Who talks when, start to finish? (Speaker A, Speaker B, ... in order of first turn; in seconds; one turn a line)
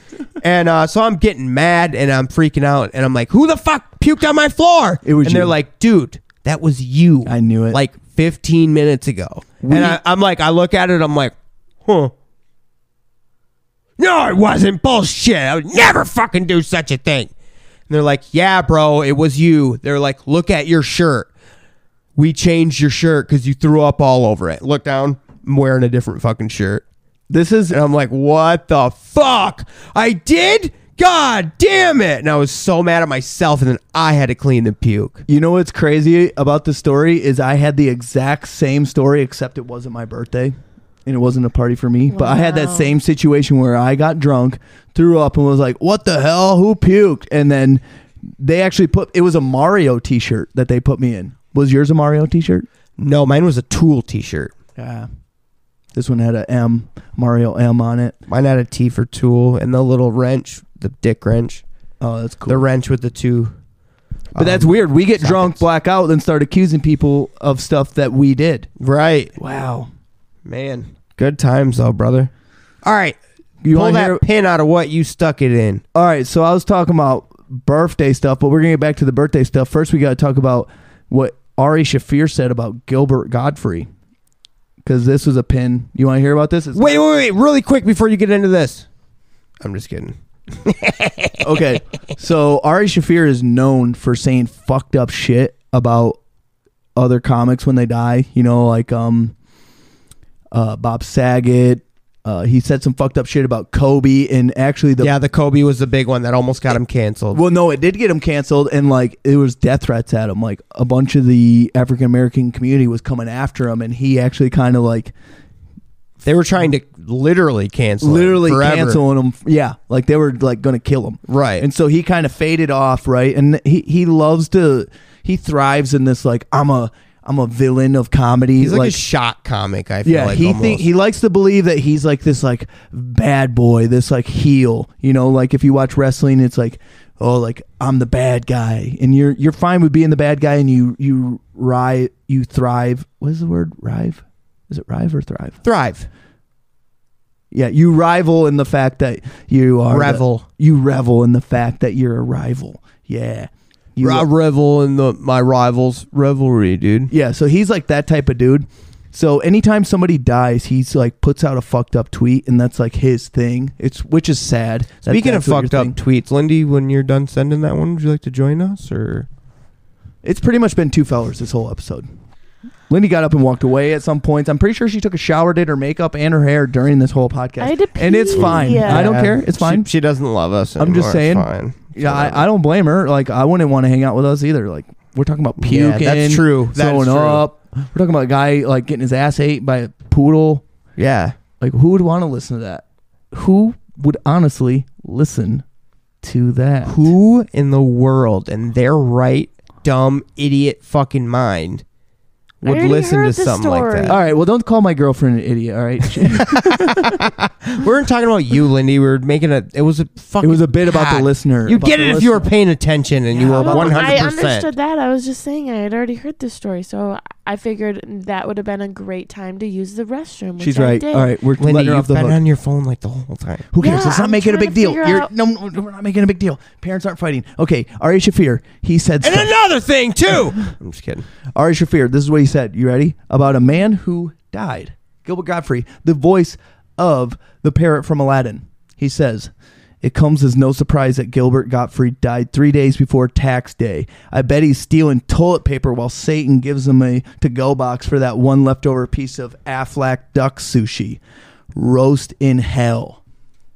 Speaker A: 0.4-11.3
Speaker B: 5.0-5.5
Speaker B: 7.2-7.8
Speaker B: 9.6-10.0
Speaker A: 11.8-12.1
Speaker A: 14.0-17.3
Speaker A: 17.9-21.3
Speaker A: 22.1-26.8
Speaker B: 27.3-27.8
Speaker A: 27.7-35.2
Speaker B: 35.3-47.8
Speaker C: 42.1-42.9
Speaker B: 48.4-52.7
Speaker A: 53.0-54.5
Speaker B: 54.8-55.1
Speaker B: 55.9-58.2
Speaker A: 58.3-61.6
Speaker B: 62.0-62.6
Speaker A: 62.5-63.5
Speaker A: 64.3-65.6
Speaker B: 64.3-68.7
Speaker A: 68.8-69.3
Speaker B: 69.4-69.9
Speaker A: 70.5-72.3
Speaker A: 72.8-73.2
Speaker B: 73.6-74.2
Speaker A: 73.7-75.8
Speaker B: 75.9-83.9
Speaker B: 84.8-87.0
Speaker A: 86.7-88.8
Speaker A: 89.6-91.6
Speaker B: 91.4-96.2
Speaker B: 97.0-99.3
Speaker B: 100.5-105.1
Speaker A: 105.0-107.4
Speaker B: 107.3-115.1
Speaker A: 116.2-119.0
Speaker B: 118.0-129.0
Speaker A: 121.3-121.7
Speaker A: 128.6-130.9
Speaker B: 130.0-145.6
Speaker A: 145.6-146.1
Speaker B: 147.5-154.3
Speaker A: 149.9-150.4
Speaker A: 154.0-157.1
Speaker B: 157.1-166.0
Speaker A: 165.1-169.3
Speaker B: 170.2-172.1
Speaker B: 172.9-179.9
Speaker C: 177.6-179.1
Speaker A: 178.8-182.4
Speaker B: 180.8-190.6
Speaker A: 185.6-187.4
Speaker A: 191.0-191.3
Speaker B: 191.6-195.6
Speaker B: 196.2-197.1
Speaker A: 196.8-201.8
Speaker A: 202.6-204.2
Speaker C: 202.6-204.2
Speaker B: 204.1-207.3
Speaker A: 206.3-214.7
Speaker B: 210.4-212.5
Speaker B: 213.3-214.2
Speaker C: 213.5-221.3
Speaker B: 220.6-222.4
Speaker A: 221.6-223.7
Speaker B: 223.7-229.5
Speaker C: 223.8-225.3
Speaker A: 229.2-231.2
Speaker B: 231.5-251.2
Speaker B: 251.7-253.2